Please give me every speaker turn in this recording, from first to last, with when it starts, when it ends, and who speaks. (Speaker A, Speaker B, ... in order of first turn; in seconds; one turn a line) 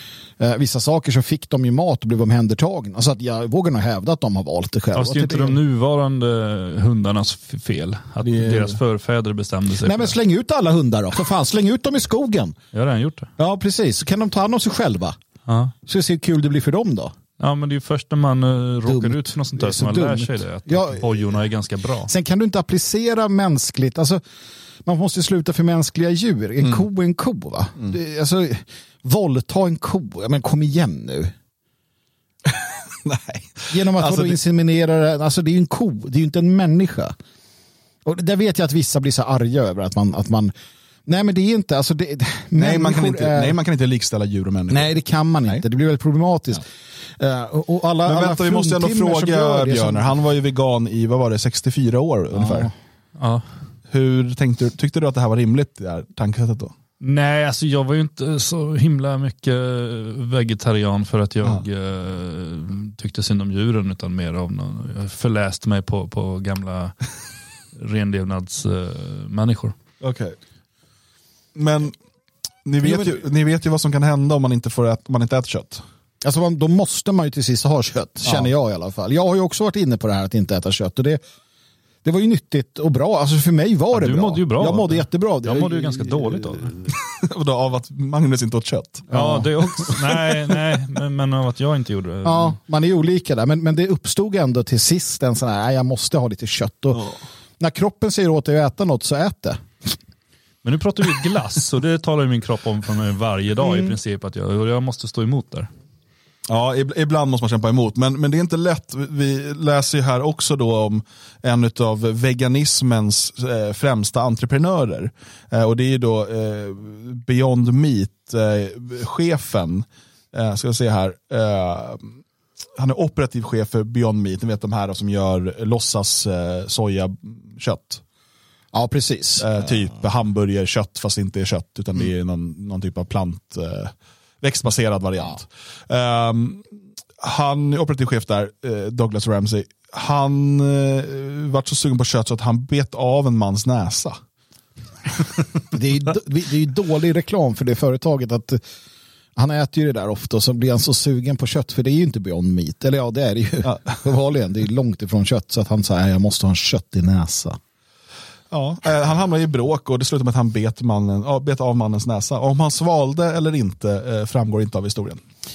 Speaker A: 0.4-5.6
Speaker B: 4.9-10.2
Speaker C: 8.2-8.8
Speaker A: 9.8-12.6
Speaker B: 12.7-13.3
Speaker A: 13.4-15.2
Speaker B: 15.5-15.7
Speaker A: 15.9-17.1
Speaker B: 17.4-22.1
Speaker A: 18.9-21.2
Speaker A: 22.1-24.2
Speaker A: 24.9-31.3
Speaker C: 32.5-34.4
Speaker A: 33.7-37.1
Speaker A: 38.0-40.5
Speaker A: 41.1-43.6
Speaker C: 42.6-44.9
Speaker A: 44.7-46.7
Speaker A: 47.2-50.2
Speaker C: 48.1-52.7
Speaker A: 52.3-52.7
Speaker B: 53.2-53.5
Speaker C: 53.9-56.7
Speaker B: 57.0-67.0
Speaker B: 67.8-69.8
Speaker C: 70.0-70.4
Speaker C: 71.5-72.0
Speaker C: 72.7-75.8
Speaker A: 72.8-73.2
Speaker A: 76.2-81.2
Speaker A: 82.0-86.6
Speaker B: 83.9-86.9
Speaker C: 87.0-89.1
Speaker A: 89.1-89.5
Speaker B: 89.1-92.6
Speaker C: 89.9-90.2
Speaker A: 92.2-97.1
Speaker A: 97.6-100.0
Speaker B: 100.6-105.7
Speaker A: 103.7-103.9
Speaker C: 106.5-122.1
Speaker C: 122.8-128.0
Speaker A: 128.7-129.6
Speaker C: 129.4-136.6
Speaker C: 137.2-144.2
Speaker A: 145.7-148.6
Speaker A: 149.4-157.6
Speaker C: 153.6-154.0
Speaker C: 158.5-165.2